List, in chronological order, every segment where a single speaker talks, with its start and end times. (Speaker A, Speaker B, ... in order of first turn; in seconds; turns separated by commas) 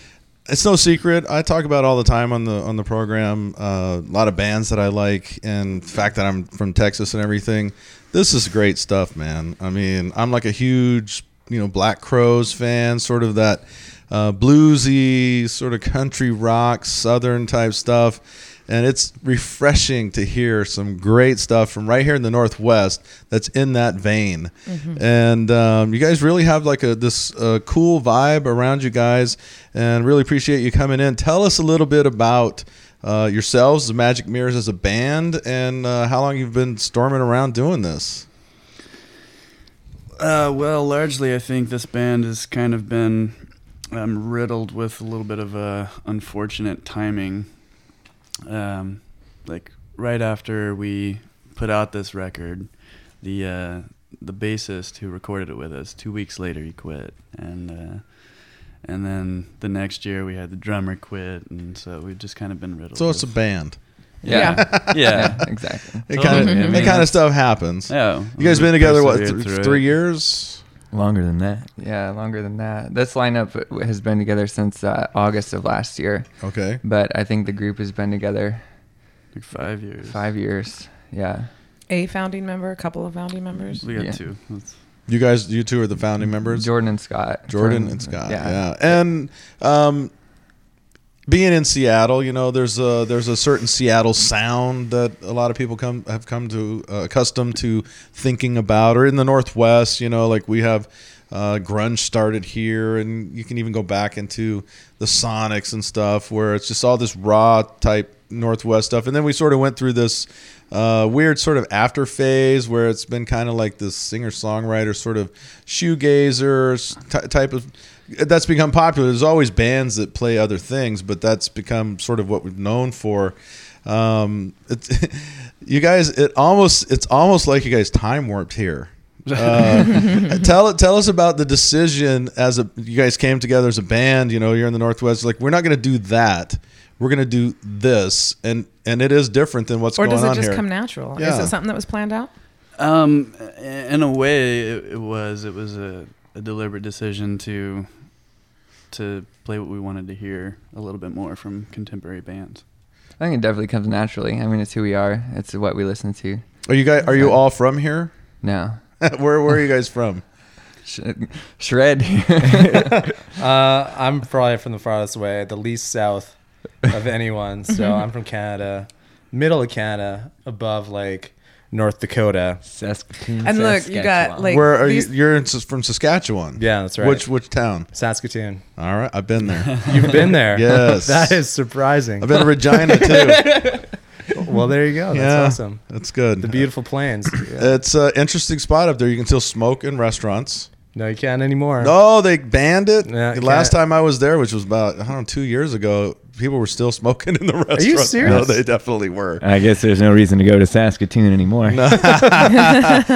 Speaker A: 0.5-38.3, Speaker B: 24.7-25.0, Speaker C: 40.1-47.9, Speaker C: 48.5-69.9, Speaker A: 62.9-70.6, Speaker D: 64.2-67.0, Speaker B: 64.3-64.8, Speaker E: 70.9-71.7, Speaker D: 71.8-79.0, Speaker A: 76.4-76.8, Speaker C: 79.3-80.2, Speaker D: 80.0-81.5, Speaker B: 81.9-83.8, Speaker C: 83.8-84.8, Speaker D: 83.9-84.2, Speaker A: 85.1-90.1, Speaker D: 86.2-89.0, Speaker A: 91.3-141.5, Speaker C: 129.3-130.0, Speaker B: 140.0-142.3, Speaker C: 142.7-152.6, Speaker D: 153.2-159.0, Speaker A: 156.7-158.4, Speaker A: 159.0-160.2, Speaker D: 160.8-163.0, Speaker F: 163.3-172.6, Speaker E: 172.6-174.5, Speaker B: 173.4-175.1, Speaker A: 174.4-177.9, Speaker F: 176.6-178.7, Speaker A: 178.8-183.8, Speaker F: 179.9-187.4, Speaker A: 185.1-190.7, Speaker F: 190.9-191.9, Speaker A: 191.8-199.4, Speaker F: 193.0-193.8, Speaker F: 197.7-198.6, Speaker E: 198.2-198.5, Speaker E: 199.4-201.9, Speaker A: 201.7-203.0